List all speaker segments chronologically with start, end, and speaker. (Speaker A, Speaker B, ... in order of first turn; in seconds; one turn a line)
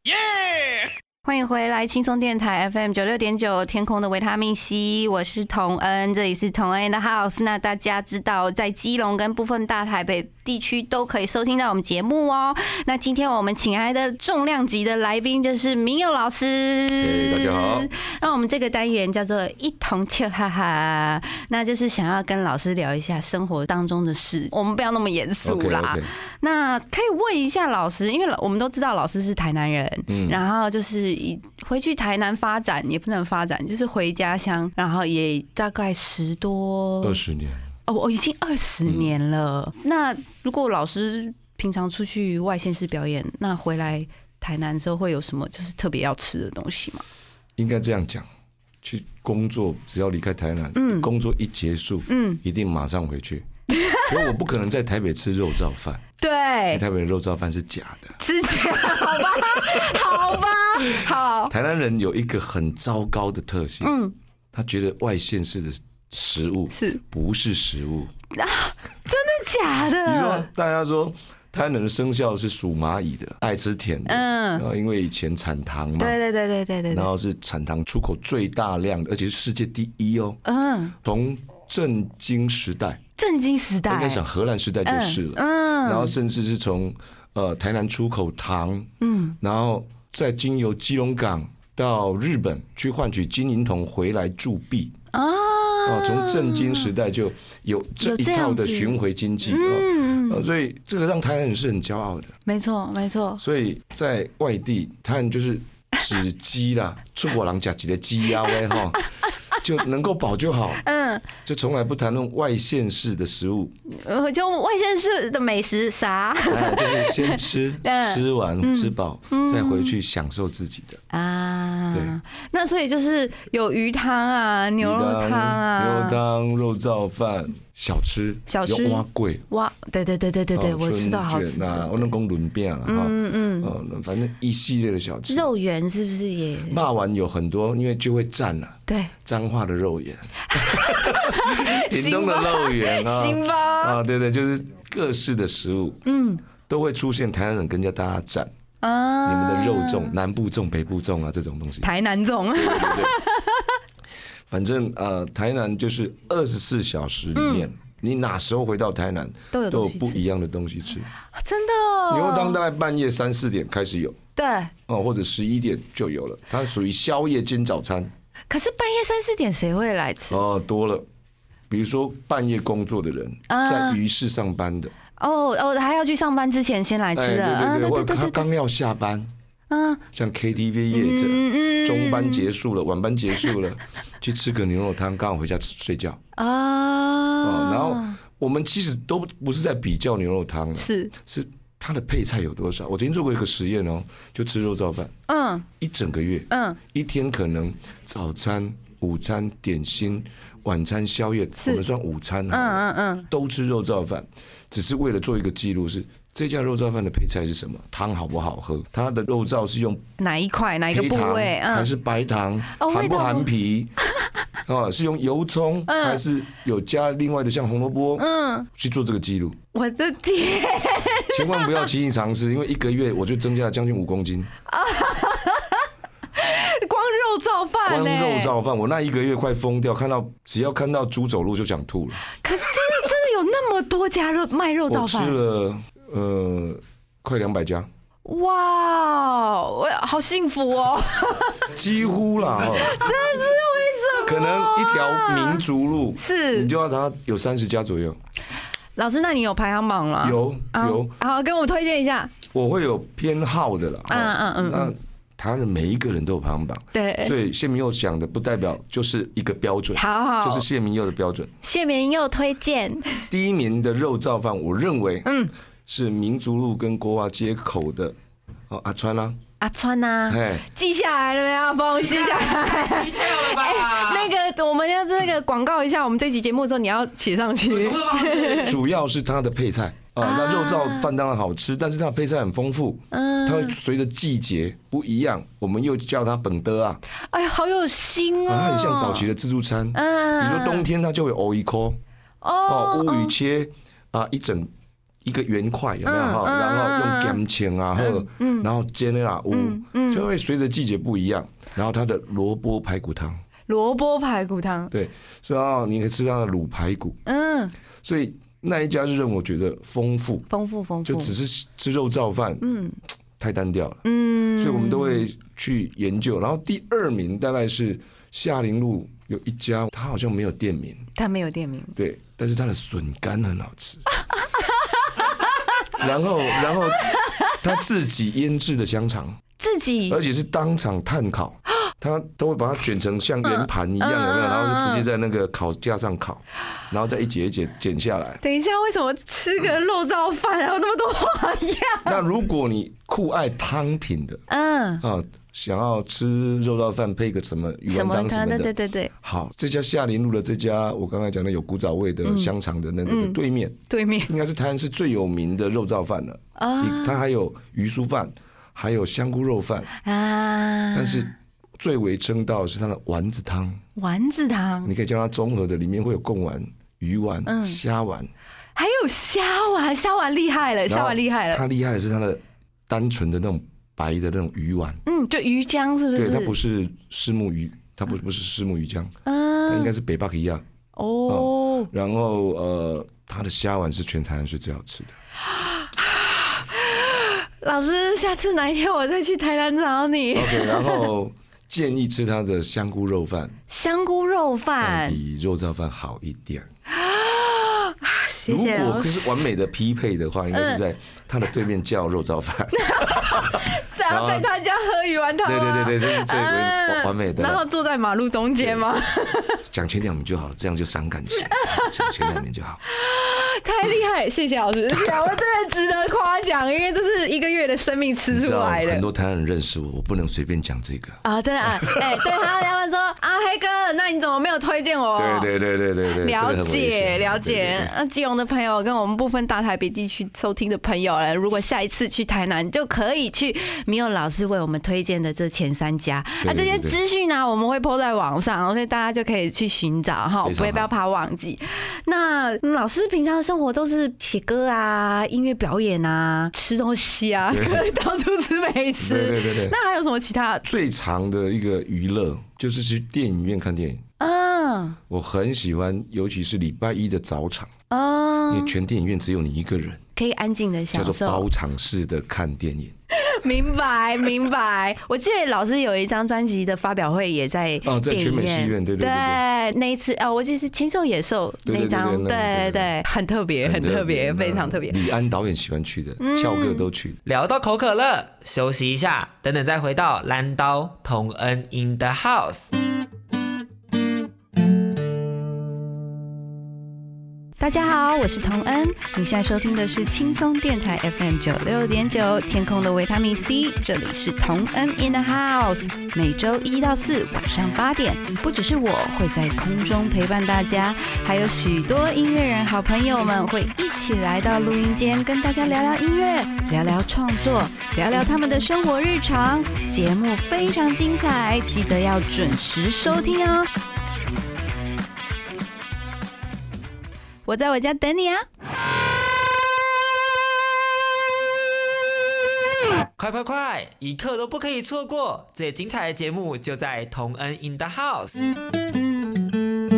Speaker A: 1.2-37.2
Speaker B: 17.0-17.9
Speaker B: 25.4-26.1
Speaker B: 30.1-30.4
Speaker B: 37.0-37.7
Speaker A: 37.9-47.0
Speaker B: 38.9-39.1
Speaker B: 47.6-48.3
Speaker B: 48.8-53.5
Speaker A: 50.7-51.1
Speaker A: 52.1-52.4
Speaker A: 53.7-54.3
Speaker B: 54.0-56.0
Speaker A: 56.2-56.8
Speaker B: 56.7-58.2
Speaker A: 58.2-61.5
Speaker B: 58.9-64.0
Speaker A: 63.8-64.1
Speaker B: 64.5-68.1
Speaker A: 66.7-67.0
Speaker A: 68.3-70.5
Speaker B: 70.0-76.2
Speaker A: 74.1-74.6
Speaker A: 76.0-77.1
Speaker B: 76.9-80.4
Speaker A: 80.4-80.9
Speaker B: 81.0-83.0
Speaker A: 83.2-84.2
Speaker B: 83.9-94.9
Speaker A: 84.8-86.1
Speaker A: 89.0-89.4
Speaker A: 95.1-96.9
Speaker B: 95.8-102.3
Speaker A: 98.0-100.4
Speaker A: 102.5-103.4
Speaker B: 103.4-109.0
Speaker A: 108.5-109.0
Speaker B: 109.5-110.8
Speaker A: 110.8-111.3
Speaker B: 111.4-113.7
Speaker A: 113.9-119.9
Speaker B: 116.5-121.0
Speaker A: 121.1-126.2
Speaker B: 121.9-122.2
Speaker B: 124.8-129.4
Speaker A: 128.5-132.1
Speaker B: 130.5-135.5
Speaker A: 132.8-133.7
Speaker A: 135.3-136.8
Speaker B: 136.7-146.0
Speaker A: 138.9-139.1
Speaker A: 140.5-144.0
Speaker A: 146.0-146.4
Speaker B: 146.7-148.5
Speaker A: 148.8-150.1
Speaker B: 149.2-151.9
Speaker A: 151.8-153.7
Speaker B: 152.5-153.2
Speaker B: 154.5-161.1
Speaker A: 157.3-157.7
Speaker A: 159.5-160.2
Speaker A: 161.3-162.6
Speaker B: 162.1-164.2
Speaker A: 164.3-164.7
Speaker B: 164.9-168.1
Speaker A: 168.5-170.4
Speaker B: 170.3-171.1
Speaker B: 171.7-174.9
Speaker A: 173.5-174.0
Speaker A: 175.2-178.4
Speaker B: 177.1-179.3
Speaker A: 179.7-180.0
Speaker B: 180.1-186.2
Speaker A: 180.9-182.5
Speaker A: 186.3-188.2
Speaker B: 187.4-195.1
Speaker A: 190.8-191.1
Speaker A: 195.3-195.7
Speaker B: 195.8-210.0
Speaker A: 196.5-196.8
Speaker A: 201.6-201.8
Speaker A: 202.5-203.3
Speaker A: 210.2-211.9
Speaker B: 210.9-213.9
Speaker A: 212.7-213.5
Speaker B: 214.7-219.6
Speaker A: 215.9-216.2
Speaker A: 218.2-218.7
Speaker A: 219.7-221.9
Speaker B: 221.3-224.5
Speaker A: 224.7-228.5
Speaker B: 227.8-232.2
Speaker A: 232.4-235.3
Speaker B: 234.9-237.9
Speaker A: 238.2-241.7
Speaker B: 241.7-243.0
Speaker A: 242.6-245.6
Speaker B: 244.2-248.2
Speaker A: 246.2-246.7
Speaker A: 248.9-252.3
Speaker B: 250.2-251.1
Speaker B: 252.5-261.5
Speaker A: 254.1-254.9
Speaker A: 256.9-257.3
Speaker A: 259.9-260.6
Speaker A: 261.6-263.2
Speaker B: 263.3-265.3
Speaker A: 265.2-265.5
Speaker B: 265.9-268.1
Speaker B: 268.7-269.4
Speaker A: 269.6-278.8
Speaker B: 270.3-270.6
Speaker B: 278.3-287.0
Speaker A: 280.2-281.1
Speaker A: 283.1-283.8
Speaker A: 287.3-289.3
Speaker B: 288.4-292.0
Speaker A: 289.9-290.9
Speaker A: 292.4-293.3
Speaker B: 292.7-294.7
Speaker B: 295.2-303.4
Speaker A: 296.0-297.4
Speaker A: 297.9-298.7
Speaker A: 299.5-300.2
Speaker A: 303.7-304.9
Speaker B: 304.9-307.2
Speaker A: 307.2-307.7
Speaker B: 308.0-310.5
Speaker A: 310.5-311.3
Speaker B: 311.0-312.6
Speaker A: 312.6-312.9
Speaker B: 313.4-314.0
Speaker A: 314.0-315.2
Speaker B: 314.6-321.1
Speaker A: 321.1-321.9
Speaker B: 321.9-324.0
Speaker A: 324.4-325.5
Speaker B: 325.9-329.4
Speaker A: 326.9-327.6
Speaker A: 329.6-330.2
Speaker B: 330.1-338.4
Speaker A: 333.4-335.1
Speaker A: 338.4-342.2
Speaker B: 342.0-344.4
Speaker A: 344.5-345.0
Speaker B: 345.0-359.9
Speaker A: 347.9-349.1
Speaker A: 352.2-352.5
Speaker A: 353.1-353.4
Speaker A: 353.9-354.3
Speaker A: 356.6-357.2
Speaker A: 360.0-361.3
Speaker B: 360.9-363.8
Speaker A: 363.9-364.9
Speaker B: 364.8-368.3
Speaker A: 367.4-367.8
Speaker A: 368.8-371.6
Speaker B: 370.9-375.0
Speaker A: 375.1-376.6
Speaker B: 376.1-379.1
Speaker A: 379.2-379.9
Speaker B: 379.7-380.6
Speaker A: 380.9-381.9
Speaker B: 381.3-385.1
Speaker A: 385.5-391.1
Speaker B: 390.3-393.5
Speaker A: 393.7-395.2
Speaker B: 394.8-396.7
Speaker A: 396.9-399.4
Speaker B: 398.5-404.5
Speaker A: 400.5-400.8
Speaker A: 402.7-409.6
Speaker B: 405.4-407.6
Speaker B: 408.6-408.9
Speaker B: 409.6-412.8
Speaker A: 411.4-412.3
Speaker A: 412.9-419.1
Speaker B: 418.3-422.4
Speaker A: 421.2-425.5
Speaker B: 425.1-427.9
Speaker A: 426.2-450.6
Speaker B: 436.4-437.0
Speaker B: 440.4-440.9
Speaker B: 447.5-447.9
Speaker B: 449.0-449.8
Speaker B: 450.6-454.0
Speaker A: 454.2-455.0
Speaker B: 455.1-457.7
Speaker A: 457.9-458.7
Speaker B: 458.5-460.0
Speaker A: 460.1-461.4
Speaker B: 460.9-462.9
Speaker A: 463.1-475.0
Speaker B: 467.8-469.4
Speaker B: 471.6-472.9
Speaker B: 473.6-477.2
Speaker A: 476.2-476.9
Speaker C: 477.2-482.7
Speaker A: 487.6-513.7
Speaker A: 517.5-518.4
Speaker C: 523.2-528.4